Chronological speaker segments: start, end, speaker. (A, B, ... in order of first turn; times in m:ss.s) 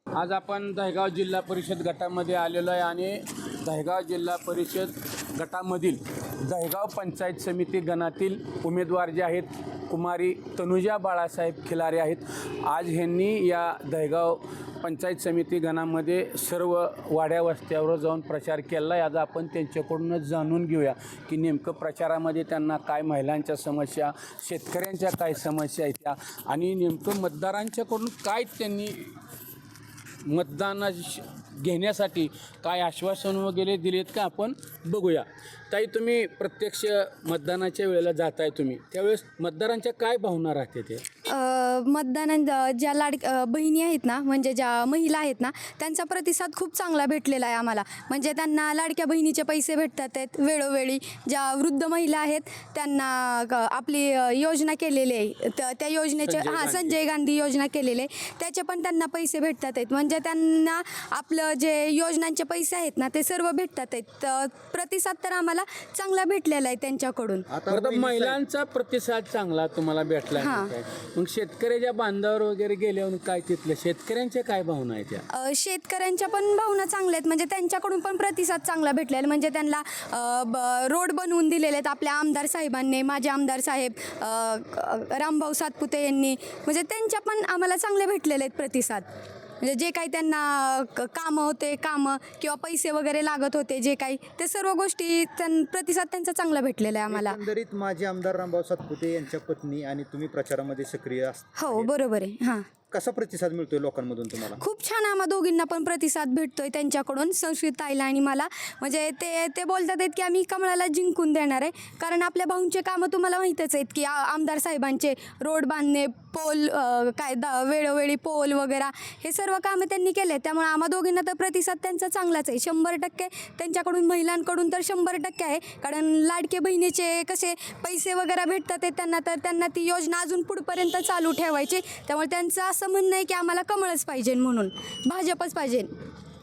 0:00.1-0:29.2 A
0:30.2-0:41.0 A
0:41.3-1:07.5 B
0:56.2-0:57.0 A
1:07.5-1:08.4 C
1:07.7-1:15.2 A
1:10.4-1:10.7 B
1:15.3-1:29.1 B
1:29.6-1:37.4 B
1:37.1-1:41.9 C
1:41.6-1:42.7 B
1:42.9-1:44.6 C
1:44.6-2:15.9 B